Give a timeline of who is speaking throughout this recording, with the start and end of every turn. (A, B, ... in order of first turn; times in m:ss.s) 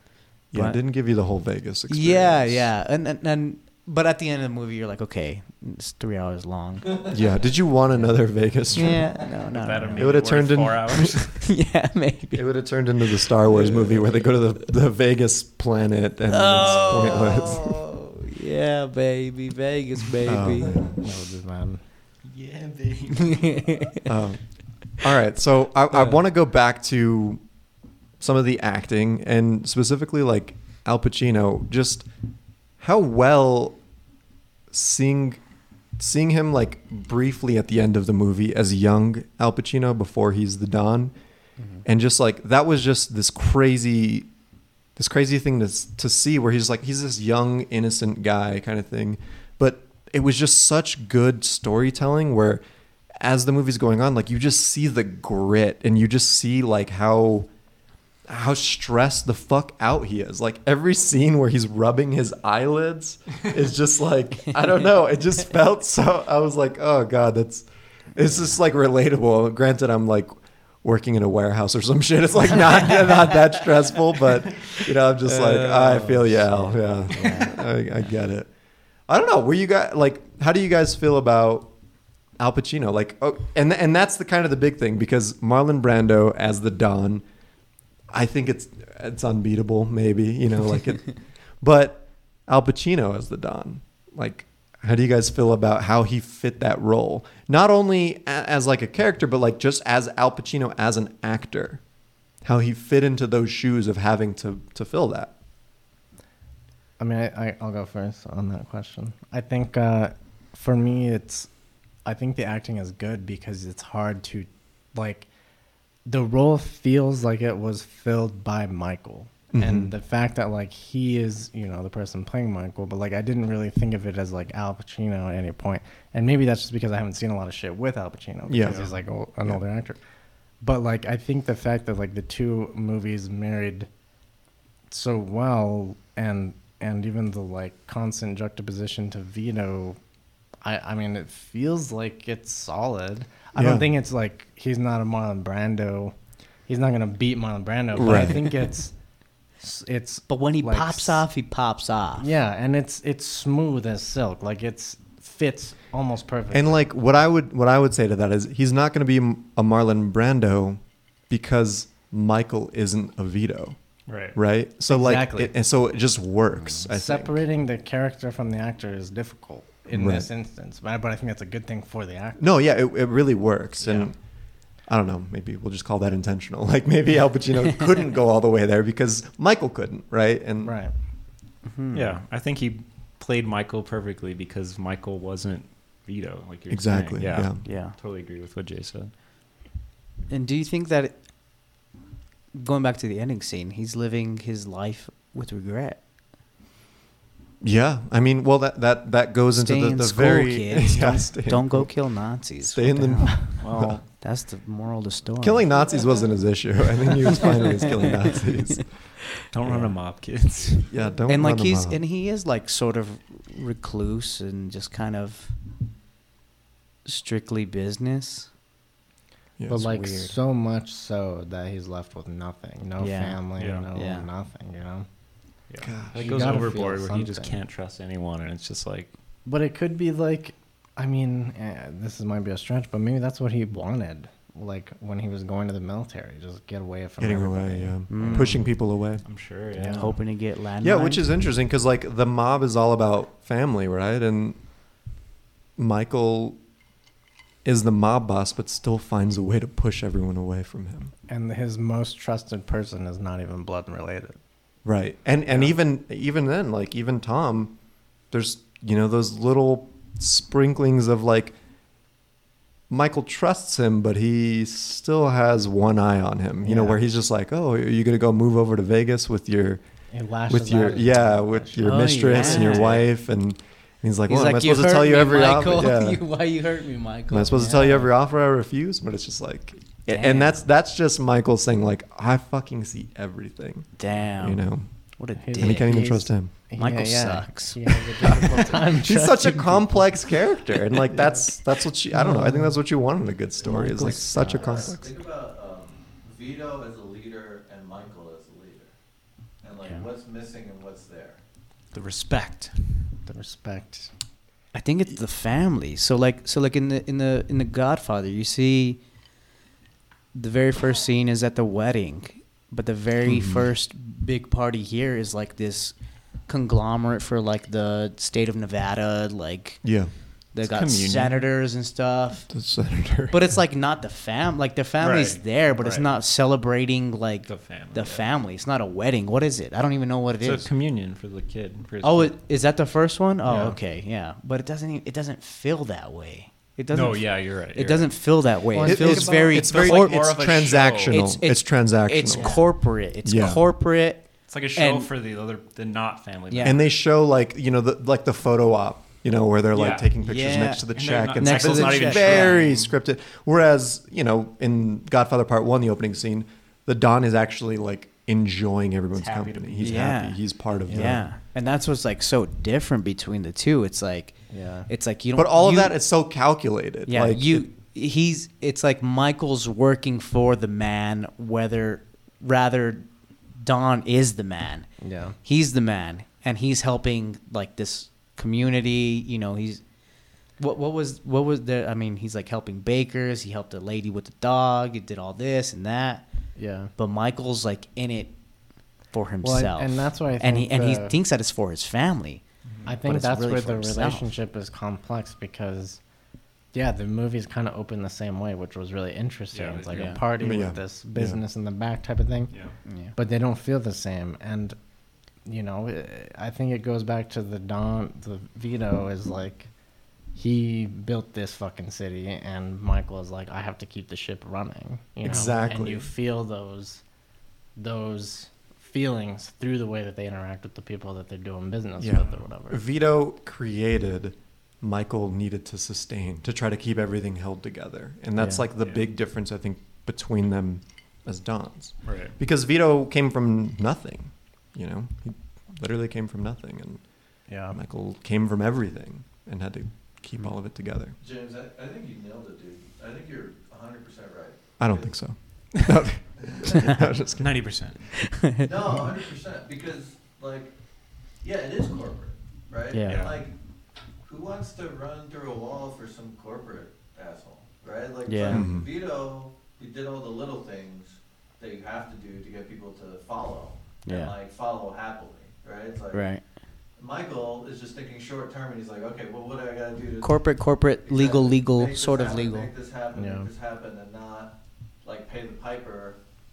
0:00.5-0:02.7 A
0:00.5-0:00.8 B
0:01.9-0:07.1 B
0:07.1-0:09.3 A
0:08.7-0:10.2 B
0:09.4-0:11.5 C
0:10.0-0:11.2 A
0:11.4-0:12.5 B
0:12.3-0:17.7 A
0:13.6-0:14.0 B
0:16.3-0:20.9 B
0:20.2-0:21.0 A
0:20.8-0:21.8 D
0:22.2-0:23.8 C
0:23.2-0:24.0 B
0:24.0-0:27.4 A
0:28.2-0:32.1 A
0:32.8-0:33.8 A
0:34.7-0:35.4 A
0:36.0-0:41.1 A
0:41.8-0:44.3 A
0:45.0-0:52.6 A
0:53.2-0:57.5 A
0:58.3-1:18.5 A
1:15.2-1:17.6 B
1:19.1-1:21.7 A
1:22.4-1:27.2 A
1:28.1-1:41.8 A
1:42.4-1:45.3 A
1:47.0-1:51.5 D
1:52.0-1:55.3 D
1:56.1-2:10.0 D
1:59.5-1:59.9 A
2:08.5-2:08.8 A
2:10.6-2:13.9 D
2:14.9-2:20.0 D
2:20.6-2:26.1 D
2:23.6-2:23.9 A
2:26.7-2:28.9 D
2:27.9-2:28.5 A
2:29.6-2:31.2 D
2:30.3-2:32.3 B
2:32.2-2:36.8 D
2:36.5-2:43.8 A
2:44.1-2:44.4 C
2:44.3-2:47.4 A
2:44.9-2:45.5 D
2:46.8-2:52.4 D
2:49.9-2:50.3 A
2:52.4-2:54.2 A
2:53.8-2:54.1 C
2:54.9-3:00.7 A
3:00.6-3:00.9 D
3:01.6-3:02.2 B
3:01.9-3:09.1 C
3:06.7-3:07.6 A
3:07.6-3:08.0 B
3:10.3-3:11.2 B
3:12.5-3:16.0 B
3:17.6-3:24.0 A
3:19.5-3:23.5 B
3:23.5-3:24.0 C
3:24.1-3:25.7 B
3:25.4-3:28.9 A
3:29.5-3:30.9 C
3:29.6-3:29.9 B
3:30.9-3:32.0 A
3:31.3-3:35.6 B
3:37.0-3:38.5 B
3:39.6-3:39.9 A
3:39.7-3:45.1 D
3:39.8-3:40.3 B
3:43.0-3:43.4 B
3:43.6-3:43.9 C
3:43.9-3:44.3 B
3:45.7-3:49.1 C
3:45.8-3:46.6 A
3:46.1-3:47.6 D
3:49.4-3:58.6 D
3:57.2-3:59.2 A
3:58.1-3:58.7 B
3:59.2-4:00.2 C
3:59.7-4:00.1 D
3:59.9-4:01.3 B
4:00.8-4:04.6 A
4:05.8-4:06.6 A
4:07.6-4:11.1 A
4:11.3-4:14.4 D
4:14.8-4:17.7 A
4:18.3-4:21.6 A
4:22.9-4:29.8 A
4:26.6-4:27.0 D
4:30.1-4:32.6 D
4:30.5-4:36.2 A
4:31.8-4:33.0 B
4:32.4-4:32.9 C
4:34.3-4:38.0 B
4:37.3-4:44.9 A
4:37.5-4:38.0 D
4:40.1-4:40.6 B
4:44.0-4:45.9 B
4:45.4-4:50.1 D
4:45.5-4:46.5 A
4:46.8-4:48.5 B
4:48.3-4:55.1 A
4:52.1-4:52.8 D
4:53.6-4:54.9 B
4:54.4-4:58.9 E
4:59.6-5:01.4 E
5:01.9-5:03.2 C
5:03.2-5:04.1 D
5:04.7-5:09.0 B
5:10.3-5:15.9 B
5:13.2-5:13.6 A
5:16.4-5:20.0 B
5:19.8-5:20.1 A
5:20.5-5:22.5 B
5:20.6-5:21.5 C
5:22.5-5:23.6 A
5:23.3-5:30.7 B
5:25.0-5:26.1 C
5:27.4-5:28.2 C
5:30.4-5:32.3 C
5:32.0-5:40.3 B
5:33.4-5:33.8 C
5:36.9-5:38.2 C
5:38.7-5:39.5 D
5:38.8-5:43.6 A
5:39.3-5:41.2 C
5:41.1-5:45.1 B
5:44.5-5:46.9 C
5:46.5-5:46.8 B
5:46.6-6:01.2 A
5:49.7-5:50.1 C
5:50.2-5:50.8 B
5:50.9-5:52.9 C
5:51.4-5:52.6 B
5:59.2-6:00.1 C
5:59.8-6:06.0 B
6:00.9-6:01.2 D
6:04.5-6:04.9 D
6:05.3-6:07.7 A
6:07.0-6:14.9 B
6:15.0-6:15.4 D
6:15.4-6:19.8 B
6:20.6-6:26.3 B
6:26.6-6:26.9 D
6:27.0-6:28.4 B
6:29.1-6:32.4 B
6:29.4-6:31.2 D
6:32.6-6:32.9 C
6:32.8-6:36.0 D
6:33.0-6:34.3 B
6:36.7-6:42.5 D
6:39.5-6:40.2 C
6:39.9-6:40.2 B
6:40.3-6:41.4 A
6:42.9-6:43.1 B
6:43.1-6:44.8 D
6:45.4-6:49.7 D
6:50.3-6:57.0 D
6:55.2-6:56.1 A
6:57.8-7:02.8 D
7:02.0-7:21.2 A
7:12.0-7:12.3 C
7:17.5-7:17.8 D
7:21.2-7:25.3 E
7:24.8-7:27.6 A
7:27.4-7:28.2 C
7:28.3-7:28.7 B
7:28.6-7:30.7 E
7:31.4-7:33.5 E
7:32.9-7:33.3 B
7:33.1-7:33.4 C
7:34.2-7:46.3 E
7:38.2-7:38.7 B
7:38.5-7:38.9 A
7:44.0-7:44.3 B
7:46.1-7:46.4 B
7:47.0-7:56.2 E
7:50.2-7:52.7 B
7:53.1-7:53.5 D